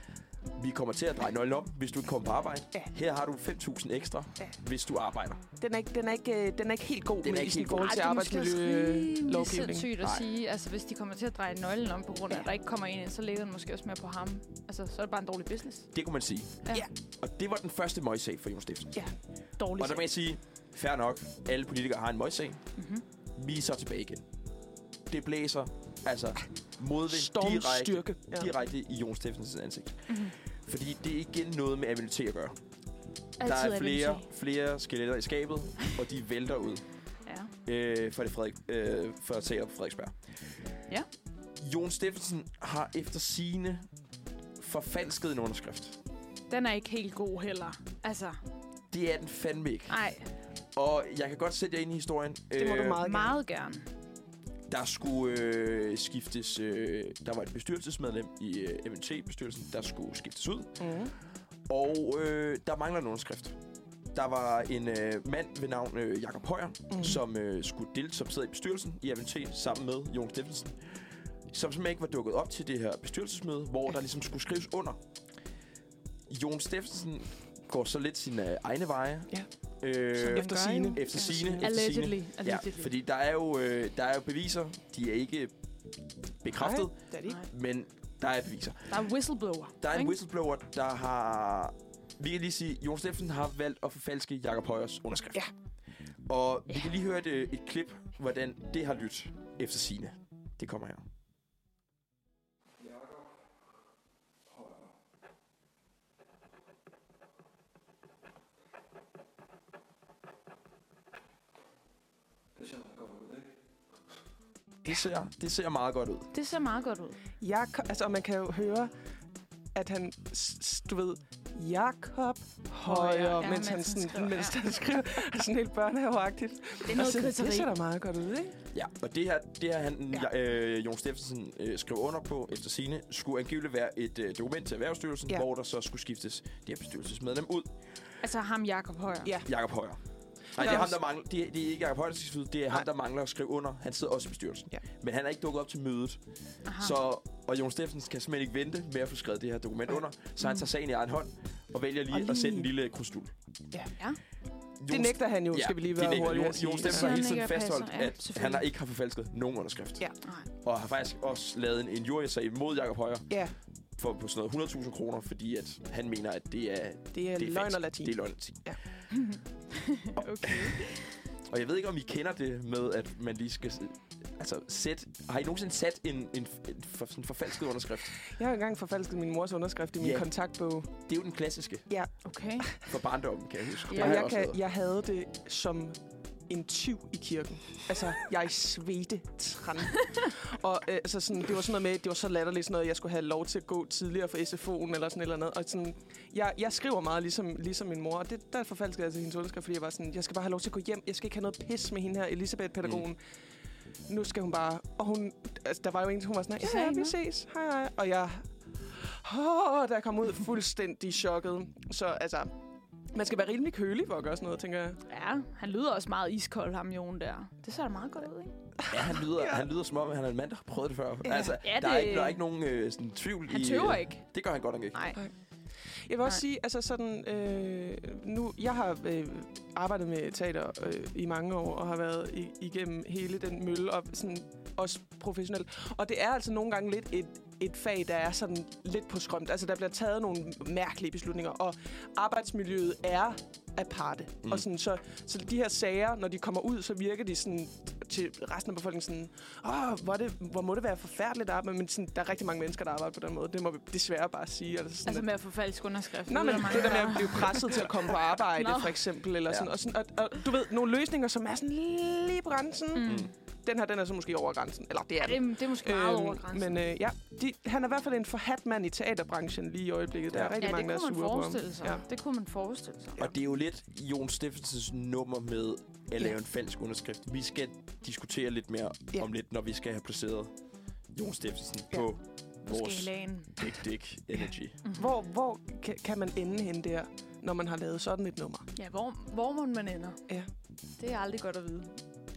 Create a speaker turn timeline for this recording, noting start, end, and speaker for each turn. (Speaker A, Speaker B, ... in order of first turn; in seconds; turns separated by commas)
Speaker A: 0.6-5.4, Speaker B: 5.6-9.9, Speaker A: 7.2-7.9, Speaker C: 7.8-15.9, Speaker A: 10.0-10.3, Speaker A: 15.9-19.0, Speaker C: 19.6-20.1, Speaker A: 19.8-22.6, Speaker C: 22.8-23.0, Speaker A: 23.4-24.2, Speaker A: 25.1-32.5, Speaker B: 27.1-28.5, Speaker C: 30.1-30.3, Speaker C: 33.4-34.3, Speaker A: 33.4-36.8, Speaker C: 37.2-37.5, Speaker A: 37.6-40.6, Speaker A: 41.6-43.9, Speaker A: 44.6-46.0, Speaker C: 46.5-48.4, Speaker A: 48.9-50.0, Speaker C: 49.9-50.3, Speaker A: 50.7-53.0, Speaker B: 52.5-53.3, Speaker C: 53.0-53.9, Speaker A: 54.7-60.9, Speaker B: 60.8-61.1, Speaker A: 61.7-63.6, Speaker A: 64.1-75.0, Speaker B: 66.9-67.2, Speaker A: 76.3-85.5, Speaker C: 80.2-82.9, Speaker B: 80.3-81.7, Speaker A: 86.4-89.0, Speaker B: 86.5-87.4, Speaker C: 88.9-90.1, Speaker A: 89.8-95.4, Speaker A: 96.2-101.0, Speaker A: 114.8-116.3, Speaker C: 116.3-117.2, Speaker B: 117.4-118.9, Speaker B: 119.7-128.6, Speaker C: 122.8-124.5, Speaker C: 126.9-127.7, Speaker A: 128.7-137.7, Speaker C: 138.2-139.3, Speaker A: 139.4-140.0, Speaker A: 140.5-146.2, Speaker B: 140.6-141.0, Speaker C: 146.6-146.9, Speaker A: 146.8-153.3, Speaker B: 152.2-152.7, Speaker A: 154.8-160.1, Speaker B: 154.9-157.1, Speaker C: 156.8-158.6, Speaker A: 160.6-168.7, Speaker B: 167.1-168.8, Speaker C: 169.1-171.2, Speaker A: 170.2-178.2, Speaker B: 178.2-180.9, Speaker A: 180.0-180.3, Speaker A: 181.0-181.9, Speaker B: 181.9-182.9, Speaker C: 182.2-182.7, Speaker A: 182.9-184.6, Speaker B: 183.9-186.0, Speaker C: 183.9-184.1, Speaker B: 186.5-203.2, Speaker B: 204.1-212.5, Speaker C: 206.6-207.1, Speaker B: 213.1-215.0, Speaker C: 215.1-218.5, Speaker A: 218.9-225.0, Speaker B: 218.9-219.6, Speaker C: 221.2-222.4, Speaker C: 223.5-224.3, Speaker C: 224.9-225.2, Speaker B: 226.0-255.3, Speaker C: 255.1-259.0, Speaker B: 256.3-272.0, Speaker C: 262.9-263.3, Speaker A: 263.0-263.3, Speaker C: 265.2-266.8, Speaker A: 270.3-270.6, Speaker C: 270.6-273.2, Speaker A: 273.2-280.5, Speaker A: 281.1-284.8, Speaker C: 282.7-283.7, Speaker C: 284.8-285.1, Speaker B: 285.0-288.7, Speaker C: 288.7-290.2, Speaker C: 291.0-292.0